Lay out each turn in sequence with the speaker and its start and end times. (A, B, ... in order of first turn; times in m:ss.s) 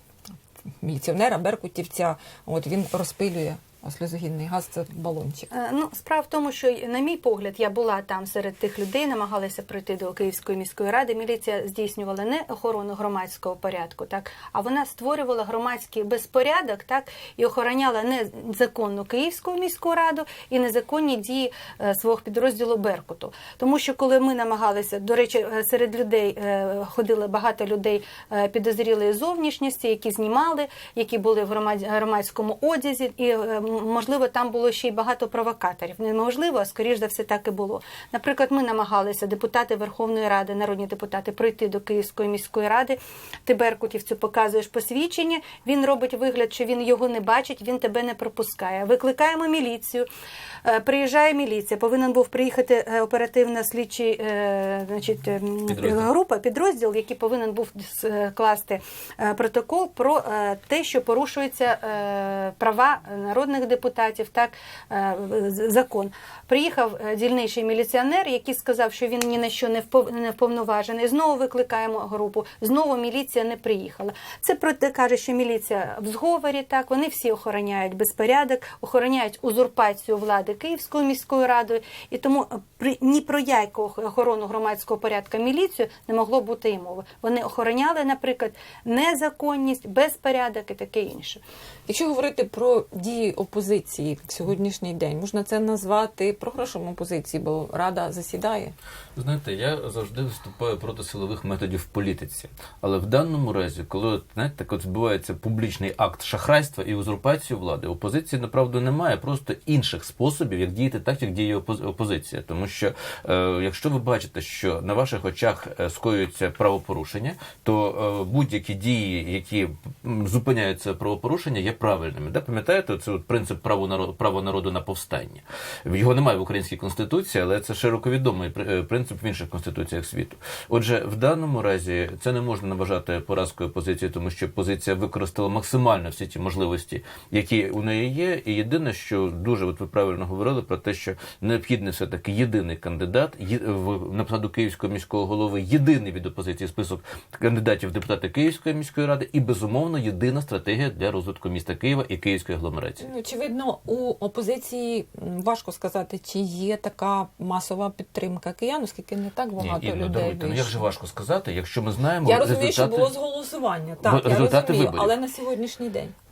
0:00.8-0:05.5 A
0:05.5-0:50.1 B
0:50.6-1:31.4 B
0:55.7-0:56.1 C
1:31.9-1:38.8 A
1:39.2-2:33.0 C
2:33.0-2:40.8 A
2:39.6-2:43.1 C
2:42.2-2:46.1 A
2:44.0-2:45.1 C